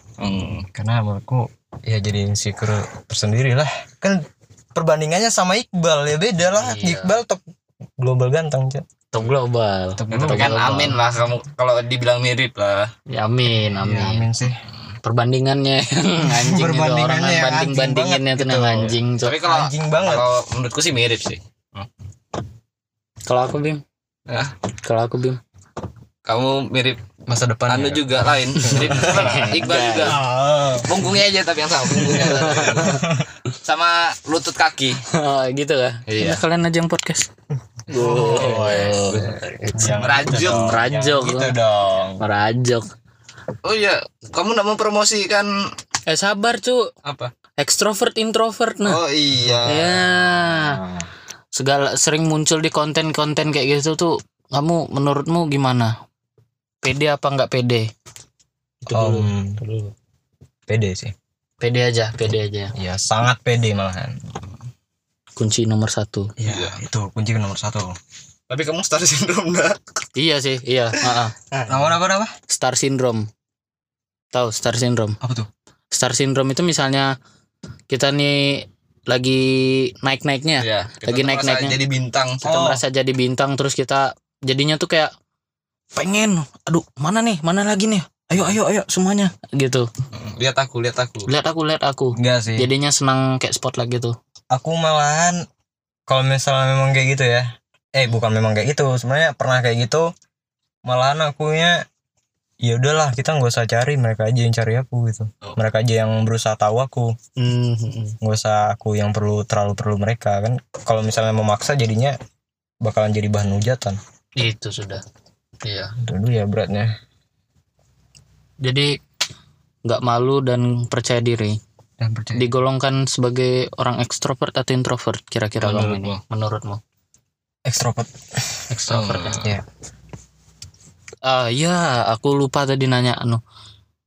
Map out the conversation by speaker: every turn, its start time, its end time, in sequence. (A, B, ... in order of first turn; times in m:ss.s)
0:00.2-0:00.7 A
0:00.7-0:04.2 B
0:04.7-0:07.4 B
0:06.4-0:07.2 C
0:08.0-0:08.8 B
0:09.1-0:11.0 C
0:10.0-0:10.6 B
0:10.1-0:12.9 A
0:13.1-0:14.3 C
0:13.7-0:14.6 B
0:15.0-0:19.4 C
0:16.2-0:20.3 B
0:19.2-0:21.9 A
0:23.2-0:23.8 C
0:24.3-0:24.5 A
0:24.8-0:25.4 C
0:26.2-0:30.2 A
0:27.3-0:29.5 B
0:28.7-0:30.2 C
0:30.0-0:31.1 B
0:30.8-0:35.0 A
0:31.9-0:33.2 B
0:32.2-0:33.0 C
0:35.1-0:37.3 C
0:36.1-0:36.4 A
0:37.9-0:41.6 C
0:37.9-0:42.2 B
0:38.2-0:39.3 A
0:39.9-0:40.8 A
0:42.2-0:42.8 C
0:43.6-0:45.5 A
0:46.1-0:46.9 C
0:47.0-0:47.3 A
0:47.6-0:49.0 C
0:48.8-0:50.0 A
0:49.4-0:51.1 B
0:49.7-0:50.8 C
0:51.5-0:55.9 C
0:56.8-0:57.9 C
0:58.8-0:59.9 C
0:58.9-0:59.6 B
1:00.7-1:01.1 B
1:01.6-1:02.7 C
1:02.8-1:04.2 B
1:05.4-1:06.3 C
1:06.4-1:08.0 B
1:06.4-1:06.8 A
1:08.5-1:09.8 A
1:10.1-1:11.3 C
1:11.5-1:11.9 A
1:11.7-1:12.3 B
1:12.5-1:13.3 C
1:14.3-1:15.2 C
1:15.2-1:15.5 B
1:15.9-1:17.1 C
1:17.9-1:21.8 C
1:20.6-1:22.4 A
1:22.4-1:25.1 C
1:22.4-1:22.8 B
1:25.9-1:29.9 C
1:28.3-1:29.3 B
1:30.1-1:31.3 A
1:31.3-1:34.2 C
1:32.1-1:32.7 B
1:34.5-1:35.4 B
1:36.1-1:40.1 B
1:40.8-1:41.8 B
1:42.6-1:47.2 B
1:47.4-1:48.2 C
1:48.2-1:52.2 B
1:52.8-1:54.0 B
1:54.4-1:55.0 C
1:55.6-1:55.9 C
1:56.0-1:56.9 B
1:58.6-1:59.0 C
1:59.8-2:01.6 C
2:02.0-2:02.5 B
2:02.3-2:06.8 C
2:05.6-2:06.2 A
2:07.6-2:08.6 B
2:08.7-2:09.4 C
2:08.9-2:09.5 A
2:09.4-2:09.6 B
2:11.2-2:13.4 C